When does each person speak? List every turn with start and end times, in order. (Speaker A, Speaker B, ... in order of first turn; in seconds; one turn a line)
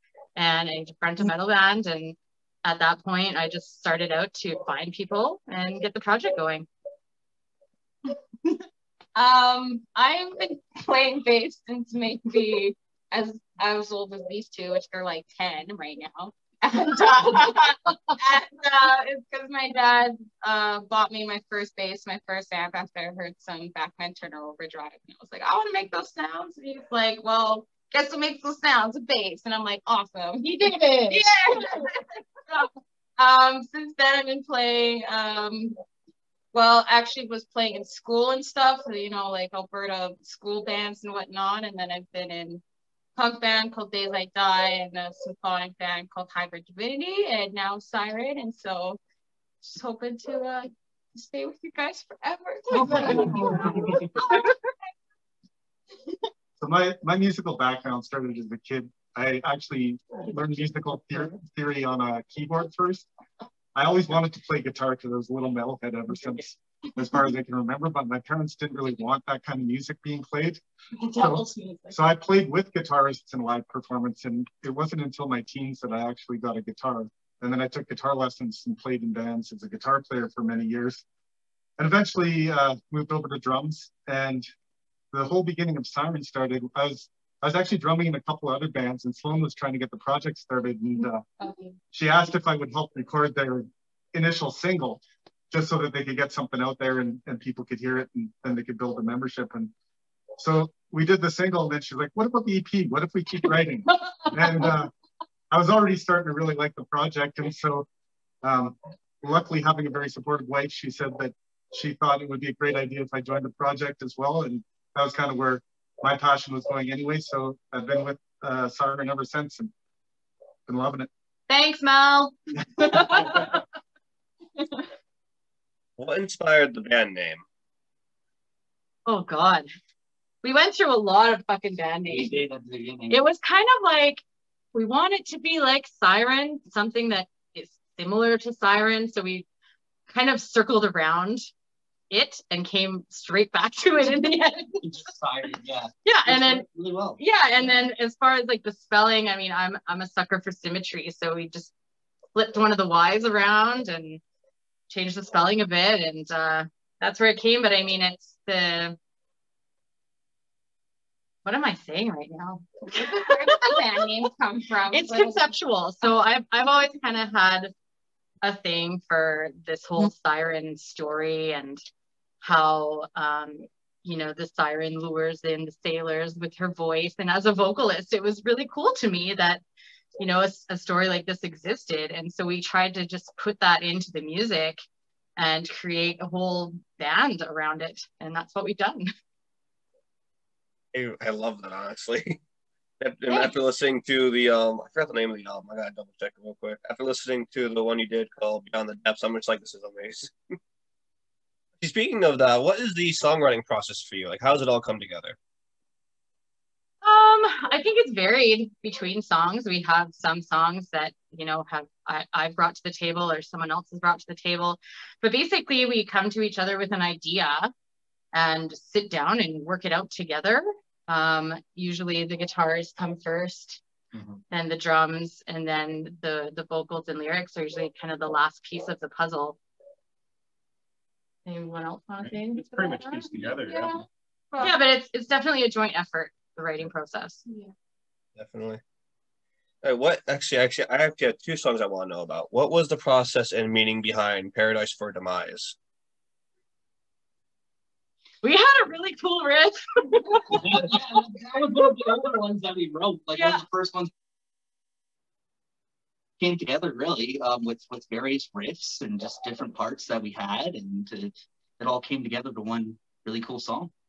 Speaker A: 0.3-6.7
Speaker B: 9.1-35.8
Speaker A: 17.9-18.1
Speaker A: 30.4-31.8
Speaker B: 36.5-42.6
Speaker B: 43.1-49.0
Speaker B: 49.6-54.6
Speaker A: 52.8-53.7
Speaker C: 52.9-53.5
Speaker C: 56.6-63.1
Speaker C: 63.7-70.6
Speaker B: 71.0-72.0
Speaker C: 71.1-81.0
Speaker C: 81.8-84.5
Speaker C: 85.1-91.2
Speaker B: 91.0-91.8
Speaker C: 91.9-99.7
Speaker C: 100.4-104.9
Speaker C: 105.5-107.8
Speaker C: 108.4-119.7
Speaker C: 120.7-121.1
Speaker A: 121.5-123.6
Speaker C: 122.8-123.2
Speaker D: 126.0-127.4
Speaker A: 129.1-129.7
Speaker A: 130.4-132.4
Speaker E: 132.1-133.2
Speaker A: 133.1-134.2
Speaker A: 134.7-139.5
Speaker A: 140.1-141.4
Speaker A: 142.1-144.8
Speaker E: 144.8-147.8
Speaker A: 146.0-146.7
Speaker A: 147.2-151.7
Speaker A: 152.3-154.2
Speaker A: 154.9-159.0
Speaker A: 161.4-163.8
Speaker B: 162.9-165.4
Speaker A: 164.9-167.7
Speaker A: 168.4-171.8
Speaker A: 172.4-179.6
Speaker A: 180.2-184.8
Speaker A: 185.4-189.1
Speaker D: 190.9-192.4
Speaker D: 193.0-200.3
Speaker D: 201.8-205.3
Speaker A: 207.0-217.7
Speaker A: 218.3-223.8
Speaker F: 224.1-224.4
Speaker A: 224.5-229.6
Speaker A: 231.4-233.3
Speaker F: 232.2-234.0
Speaker B: 233.4-234.8
Speaker A: 234.6-237.4
Speaker B: 237.4-237.7
Speaker D: 238.3-238.8
Speaker D: 239.8-245.8
Speaker A: 248.4-250.6
Speaker E: 250.5-254.1
Speaker A: 253.3-253.6
Speaker E: 256.4-263.9